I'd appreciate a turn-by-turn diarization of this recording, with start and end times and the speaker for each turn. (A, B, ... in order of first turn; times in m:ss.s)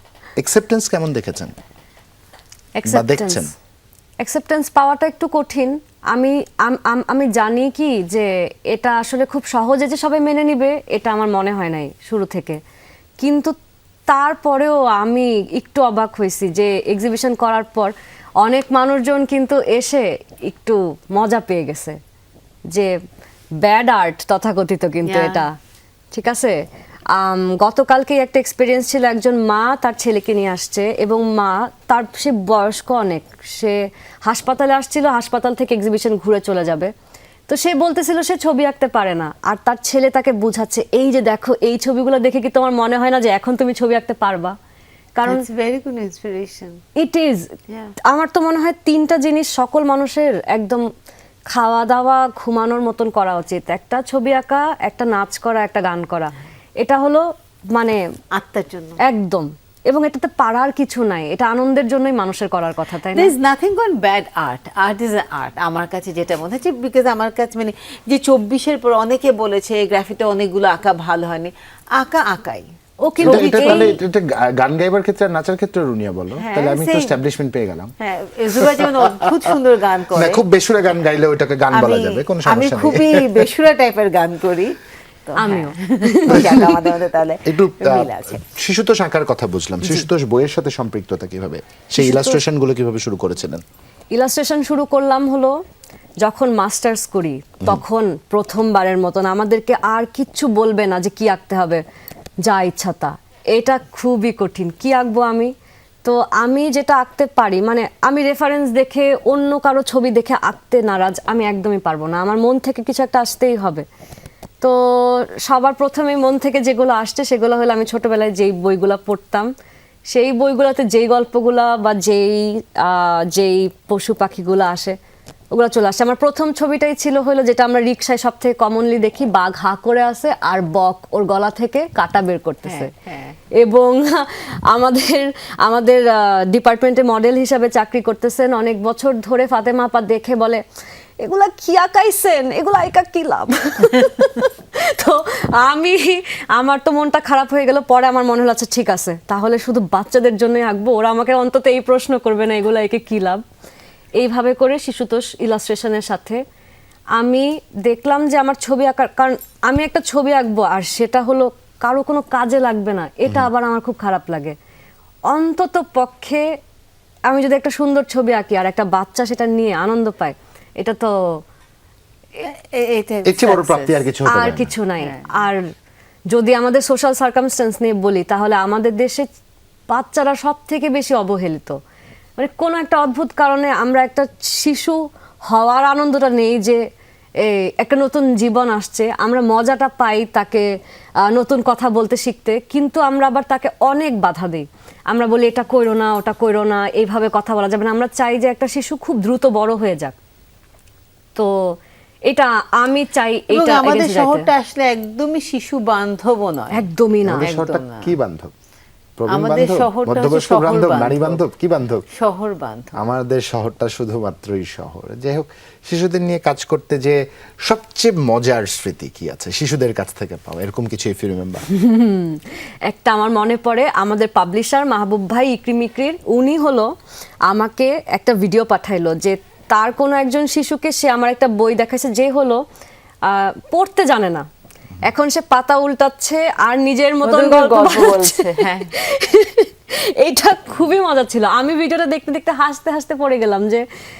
0:00.4-0:01.5 A
0:02.8-0:03.5 B
0:02.8-0:03.5 A
0:04.2-0:12.6 B
0:13.2-0:13.5 B
0:14.1-0:22.0 B
0:23.6-0:25.5 B
0:25.0-0:25.4 C
0:26.1-0:26.6 B
0:27.1-0:36.9 B
0:37.5-0:44.6 B
0:45.2-0:45.4 B
0:45.3-0:46.8 C
0:47.0-0:47.5 B
0:48.1-0:50.8 B
0:51.5-0:58.0 B
0:58.3-0:59.0 C
0:59.0-1:03.3 B
1:03.1-1:12.7 C
1:13.0-1:13.9 B
1:13.2-1:14.0 C
1:13.2-1:17.9 A
1:16.4-1:17.2 C
1:18.0-1:20.4 C
1:18.6-1:18.8 A
1:20.1-1:23.5 A
1:21.7-1:24.8 C
1:25.3-1:28.4 C
1:25.4-1:26.7 B
1:27.4-1:33.6 A
1:32.0-1:32.4 B
1:34.1-1:35.5 B
1:36.2-1:41.8 B
1:42.4-1:45.5 B
1:46.0-1:53.8 B
1:54.6-1:59.5 B
2:00.1-2:05.0 B
2:05.5-2:12.9 B
2:12.6-2:13.4 C
2:13.6-2:20.6 B
2:21.2-2:33.4 B
2:34.2-2:36.4 B
2:37.2-2:44.6 B
2:45.3-2:46.4 B
2:47.3-2:51.1 B
2:52.4-2:54.0 C
2:53.2-2:54.7 A
2:54.3-2:55.7 B
2:55.0-2:55.3 C
2:56.3-2:59.3 B
2:59.9-3:01.8 B
3:02.4-3:06.8 B
3:07.4-3:10.7 B
3:11.2-3:20.1 B
3:22.3-3:24.4 B
3:23.5-3:26.8 C
3:26.7-3:27.5 B
3:27.2-3:28.5 A
3:27.4-3:28.1 C
3:29.2-3:32.0 A
3:29.3-3:31.4 C
3:32.1-3:32.9 C
3:33.0-3:41.6 A
3:41.7-3:46.9 B
3:47.5-3:52.6 B
3:53.2-3:54.4 B
3:55.0-4:03.8 B
3:57.2-3:58.9 C